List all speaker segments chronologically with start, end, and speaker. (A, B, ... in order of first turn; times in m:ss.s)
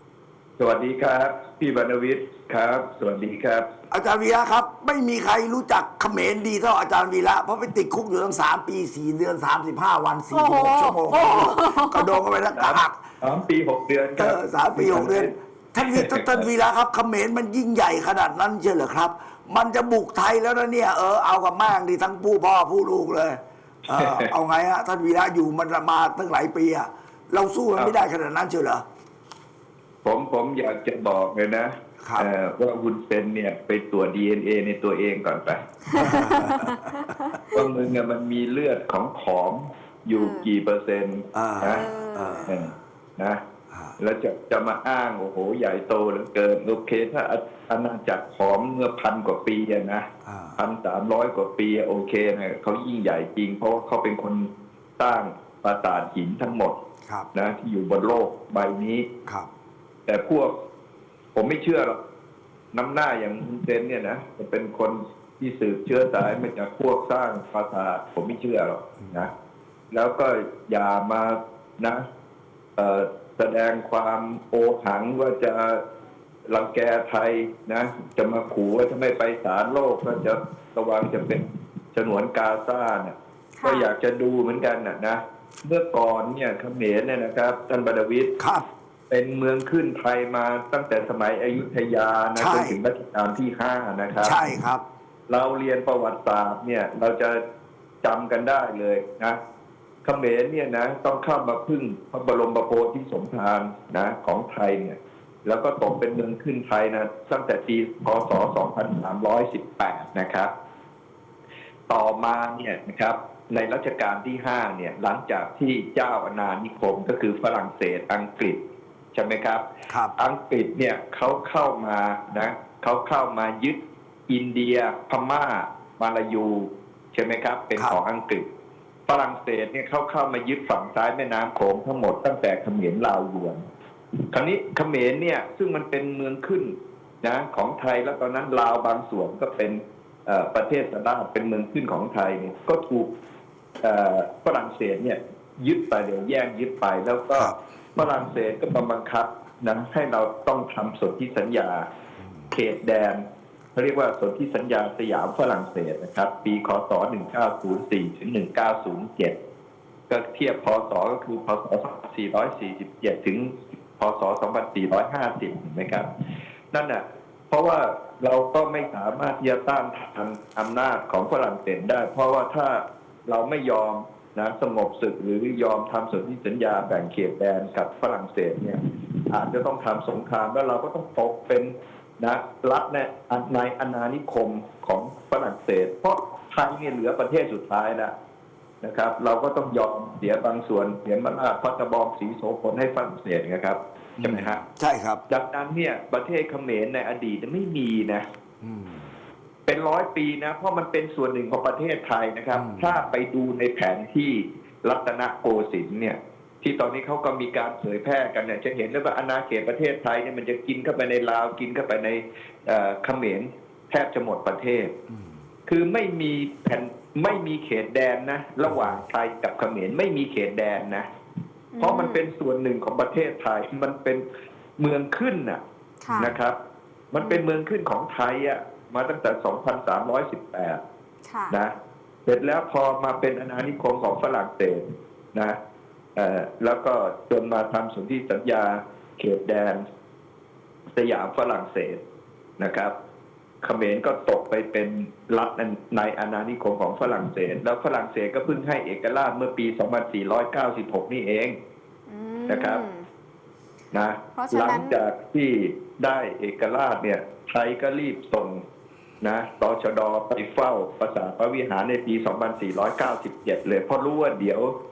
0:00.6-0:03.7 A
0:03.9-0:13.0 B
0:10.3-0:12.2 C
0:12.5-0:16.5 A
0:14.2-0:28.8 B
0:23.9-0:24.3 A
0:30.0-0:36.4 A
0:32.0-0:32.3 B
0:35.9-0:37.6 C
0:35.9-0:37.4 B
0:37.5-0:41.8 A
0:40.1-0:40.5 C
0:41.3-0:42.7 B
0:41.6-0:42.5 C
0:42.4-0:43.4 A
0:43.7-0:44.0 B
0:44.0-0:56.8 A
0:50.2-0:50.6 B
0:57.3-0:59.1 A
1:00.1-1:00.5 A
1:01.3-1:02.0 A
1:02.7-1:09.3 A
1:09.0-1:09.3 B
1:09.9-1:12.0 A
1:12.8-1:15.8 A
1:16.5-1:28.3 A
1:23.6-1:23.9 C
1:28.4-1:28.6 B
1:29.1-1:34.4 A
1:32.4-1:32.8 B
1:34.2-1:34.8 B
1:35.3-1:37.4 A
1:38.0-1:39.4 A
1:40.0-1:50.5 A
1:51.9-1:58.6 A
1:59.1-1:59.6 A
1:59.9-2:00.1 B
2:00.2-2:08.4 A
2:09.1-2:13.6 A
2:14.3-2:23.1 A
2:23.8-2:31.9 A
2:27.3-2:28.0 B
2:32.2-2:32.5 B
2:32.5-2:33.2 A
2:33.8-2:39.3 A
2:40.1-2:46.1 A
2:46.7-3:08.1 A
3:08.8-3:14.6 A
3:14.2-3:15.2 B
3:15.3-3:18.2 A
3:18.6-3:19.2 B
3:19.7-3:34.9 A
3:22.5-3:23.1 B
3:35.1-3:35.4 B
3:35.7-3:41.1 A
3:38.6-3:39.0 B
3:41.7-3:42.2 C
3:41.8-3:44.2 A
3:44.8-3:45.6 A
3:46.0-3:46.3 C
3:46.1-3:46.4 B
3:46.2-3:46.6 A
3:47.1-3:50.8 A
3:47.2-3:47.4 C
3:51.2-3:51.6 C
3:52.2-3:55.6 A
3:56.2-3:59.8 A
4:01.0-4:02.0 A
4:02.6-4:02.9 A
4:03.6-4:11.5 A
4:12.1-4:13.0 C
4:12.5-4:12.8 A
4:13.9-4:18.6 A
4:14.3-4:15.0 C
4:19.2-4:24.7 A